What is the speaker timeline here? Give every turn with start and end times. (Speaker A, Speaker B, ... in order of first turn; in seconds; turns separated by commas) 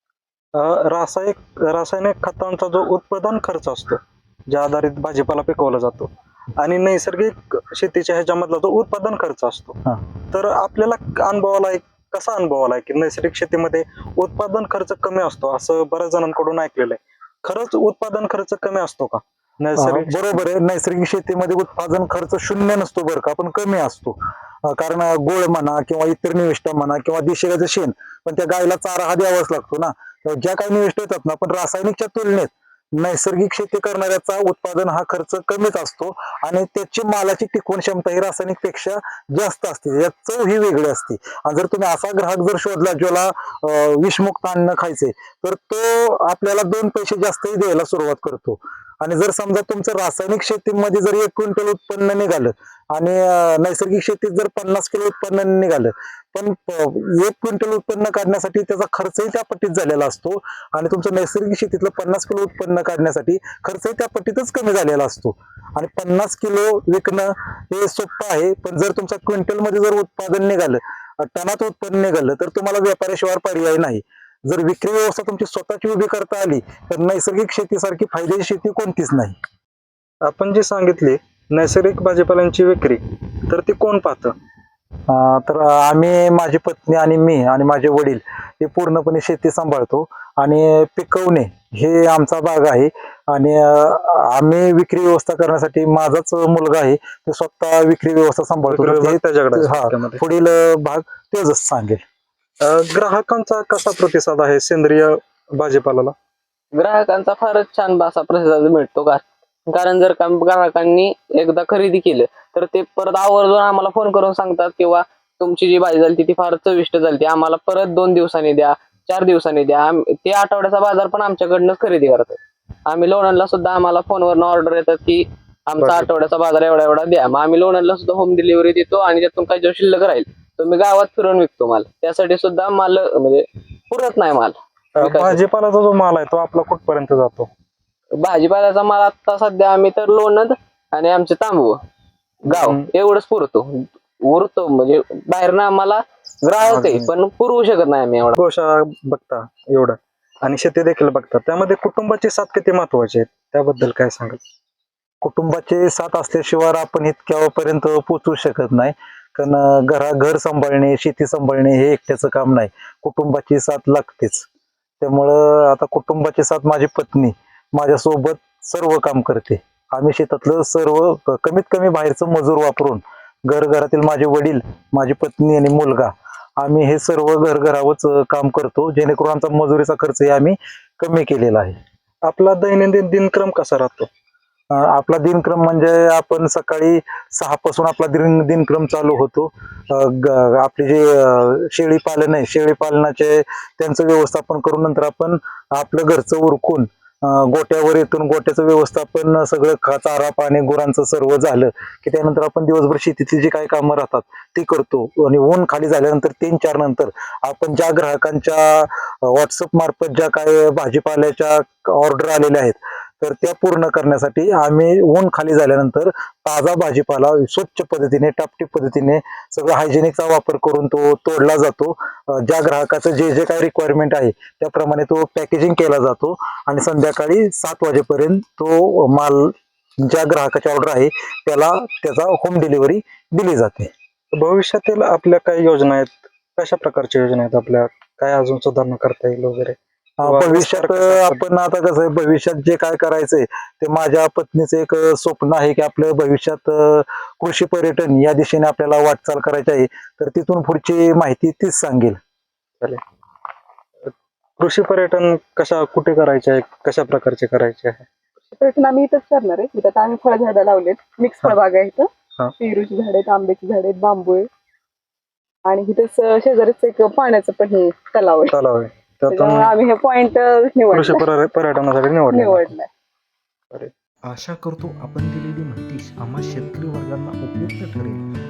Speaker A: 0.5-9.8, Speaker A: 10.3-20.4, Speaker B: 19.8-79.4, Speaker A: 80.2-84.3, Speaker B: 85.1-102.0, Speaker A: 98.7-100.2, Speaker A: 102.6-106.2, Speaker C: 106.7-135.4, Speaker A: 125.8-126.1, Speaker A: 135.0-137.5, Speaker C: 138.2-141.8, Speaker C: 142.5-148.4, Speaker A: 142.5-142.9, Speaker A: 146.6-147.1, Speaker A: 148.3-154.4, Speaker B: 155.2-164.5, Speaker B: 165.0-181.8, Speaker A: 182.3-184.1, Speaker B: 184.7-233.9, Speaker A: 234.3-241.4, Speaker B: 240.2-252.2, Speaker A: 254.1-258.1, Speaker D: 258.5-262.1, Speaker D: 262.6-264.5, Speaker D: 265.7-268.6, Speaker A: 268.5-269.8, Speaker D: 269.3-271.3, Speaker A: 270.9-272.7, Speaker D: 272.3-272.9, Speaker E: 274.3-278.2